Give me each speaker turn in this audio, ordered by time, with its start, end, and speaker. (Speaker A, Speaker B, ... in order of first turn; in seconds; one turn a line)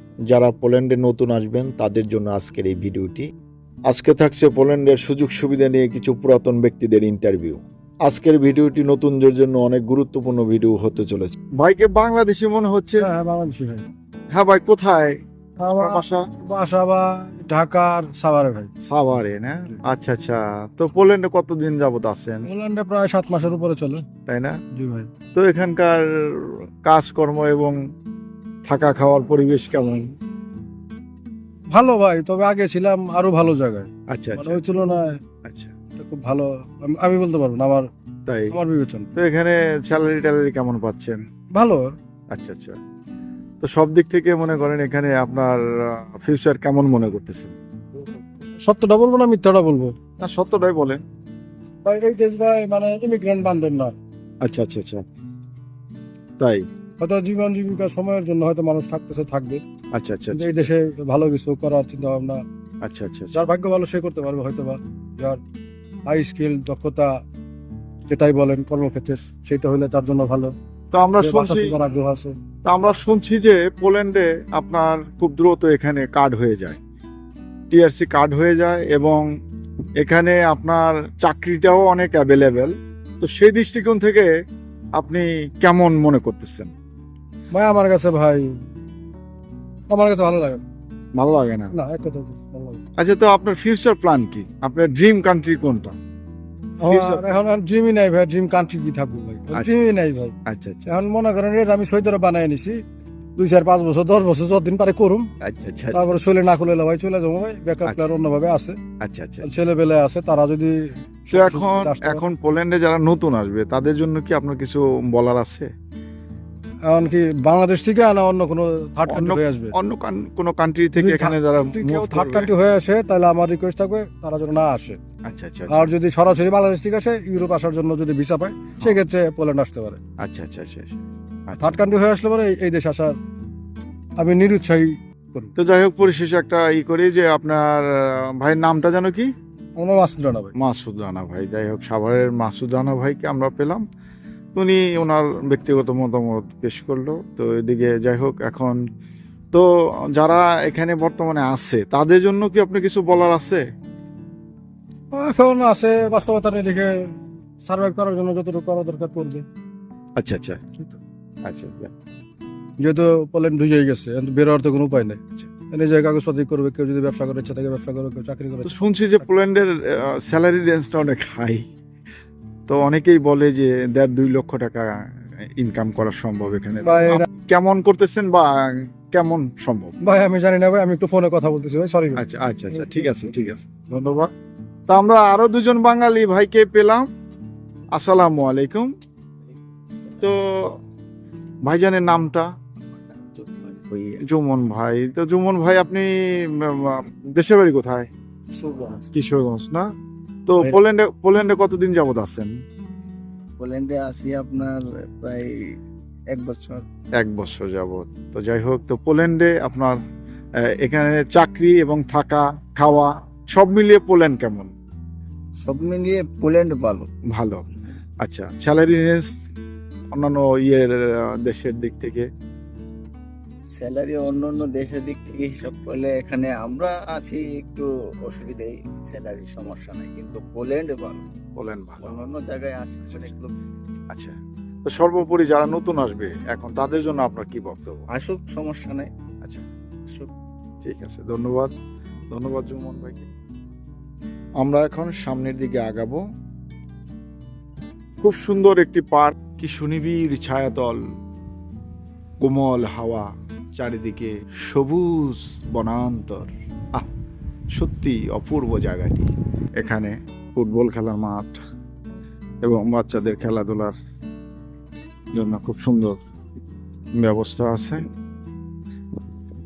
Speaker A: 0.3-3.2
Speaker A: 3.9-13.1
Speaker B: 13.0-13.8
Speaker A: 14.3-15.2
Speaker B: 15.6-18.7
Speaker A: 15.8-16.3
Speaker A: 18.9-22.4
Speaker B: 22.4-24.0
Speaker A: 24.2-24.6
Speaker B: 24.7-25.1
Speaker A: 25.3-27.8
Speaker A: 28.7-30.1
Speaker B: 31.7-35.2
Speaker A: 34.1-34.6
Speaker A: 35.4-35.8
Speaker B: 36.0-37.9
Speaker A: 38.3-38.6
Speaker B: 38.5-39.1
Speaker A: 39.1-41.2
Speaker B: 41.5-41.9
Speaker A: 42.3-42.8
Speaker A: 43.6-47.5
Speaker B: 48.6-49.9
Speaker A: 50.2-51.0
Speaker B: 51.8-53.9
Speaker A: 54.4-55.0
Speaker A: 56.4-56.6
Speaker B: 57.0-59.6
Speaker A: 59.9-60.7
Speaker B: 60.3-62.4
Speaker A: 62.8-63.4
Speaker B: 63.3-65.4
Speaker B: 66.1-67.1
Speaker B: 68.1-70.5
Speaker A: 70.9-71.8
Speaker B: 71.2-72.4
Speaker A: 72.6-76.8
Speaker A: 77.7-79.2
Speaker A: 80.0-84.3
Speaker A: 85.0-86.7
Speaker B: 87.5-88.5
Speaker B: 89.9-90.6
Speaker A: 91.2-91.8
Speaker B: 91.7-92.8
Speaker A: 93.0-95.9
Speaker B: 96.8-102.8
Speaker A: 96.9-97.3
Speaker A: 100.5-101.0
Speaker B: 103.3-105.3
Speaker A: 105.4-106.1
Speaker B: 105.9-108.8
Speaker A: 109.0-109.5
Speaker B: 109.4-112.2
Speaker A: 111.3-115.7
Speaker B: 116.8-119.8
Speaker A: 119.1-122.5
Speaker B: 121.0-125.0
Speaker A: 125.3-125.9
Speaker B: 125.7-130.0
Speaker A: 130.2-131.8
Speaker B: 131.6-133.2
Speaker B: 134.2-135.5
Speaker A: 135.6-139.3
Speaker B: 139.8-140.5
Speaker A: 140.6-143.8
Speaker A: 144.5-148.8
Speaker A: 149.5-153.6
Speaker B: 155.1-159.4
Speaker A: 160.2-160.6
Speaker A: 161.4-161.9
Speaker B: 162.8-169.3
Speaker A: 168.6-171.6
Speaker A: 172.7-179.9
Speaker B: 176.8-177.3
Speaker B: 180.0-182.2
Speaker A: 182.2-184.3
Speaker A: 184.9-187.1
Speaker A: 187.9-188.9
Speaker A: 190.2-190.8
Speaker A: 191.6-192.5
Speaker C: 193.3-194.2
Speaker A: 194.2-198.1
Speaker C: 198.5-199.1
Speaker A: 199.1-199.9
Speaker A: 200.5-202.5
Speaker C: 203.6-205.8
Speaker C: 206.3-206.8
Speaker A: 207.2-210.0
Speaker A: 210.7-214.7
Speaker C: 215.6-217.1
Speaker A: 217.3-217.6
Speaker A: 218.2-219.3
Speaker A: 220.1-222.3
Speaker C: 223.7-231.2
Speaker A: 231.5-232.2
Speaker C: 232.0-233.6
Speaker A: 233.1-233.3
Speaker A: 234.1-238.0
Speaker C: 238.1-239.1
Speaker A: 240.8-241.7
Speaker A: 242.3-243.2
Speaker A: 244.6-246.2
Speaker A: 248.2-251.0
Speaker A: 252.4-257.1
Speaker A: 257.7-261.6
Speaker A: 262.6-263.9
Speaker A: 265.3-266.2
Speaker A: 267.2-268.0